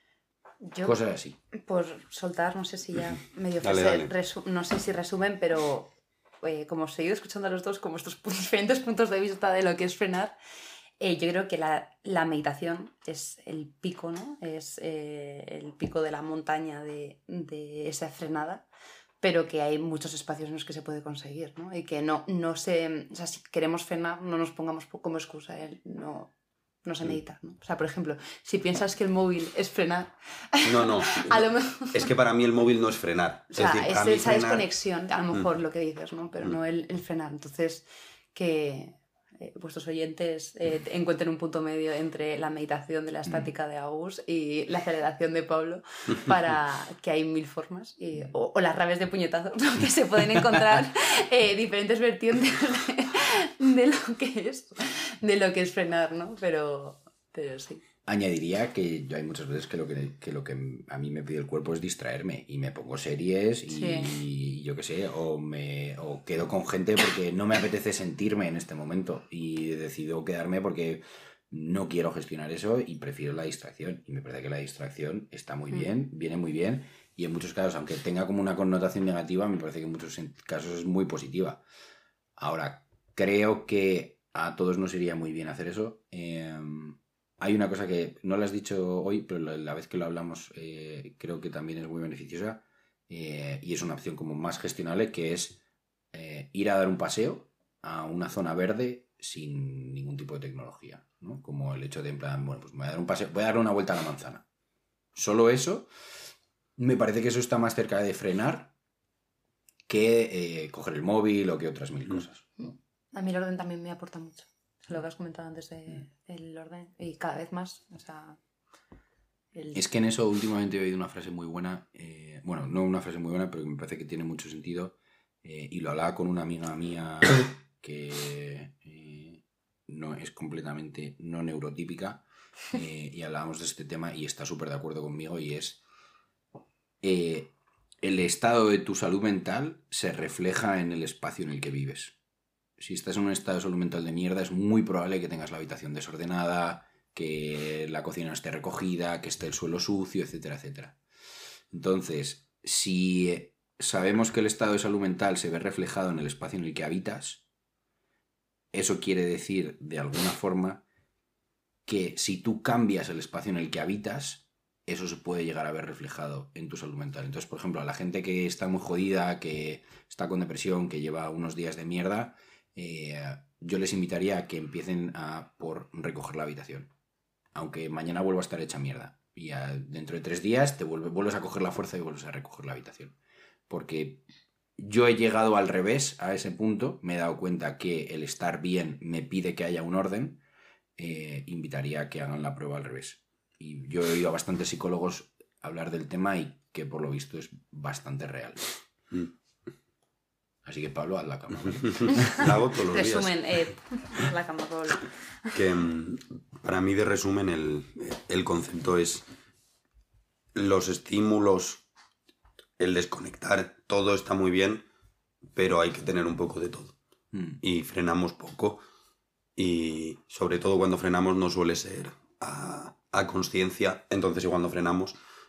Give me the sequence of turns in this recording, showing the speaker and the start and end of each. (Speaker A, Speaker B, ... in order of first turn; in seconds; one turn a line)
Speaker A: 0.6-1.0
Speaker B: 0.8-1.4
Speaker A: 1.5-10.3
Speaker C: 3.6-4.1
Speaker A: 11.0-18.7
Speaker A: 19.2-26.3
Speaker A: 26.8-32.1
Speaker C: 30.6-34.6
Speaker A: 33.5-57.8
Speaker B: 58.0-81.6
Speaker A: 63.7-64.2
Speaker B: 82.4-95.6
Speaker B: 96.1-104.5
Speaker B: 105.1-105.9
Speaker B: 106.8-108.7
Speaker B: 109.9-112.4
Speaker A: 112.6-118.4
Speaker A: 119.5-119.8
Speaker B: 119.8-135.8
Speaker B: 137.0-142.2
Speaker B: 142.8-151.0
Speaker B: 151.7-157.4
Speaker B: 158.7-160.8
Speaker B: 161.9-176.9
Speaker B: 177.5-183.1
Speaker B: 183.7-184.2
Speaker B: 184.8-190.4
Speaker B: 191.0-198.7
Speaker B: 200.7-202.2
Speaker C: 202.0-203.3
Speaker A: 202.9-205.5
Speaker C: 205.5-209.3
Speaker C: 210.6-211.8
Speaker C: 212.8-214.9
Speaker C: 215.6-216.9
Speaker B: 217.3-217.6
Speaker C: 217.6-218.8
Speaker C: 219.6-225.2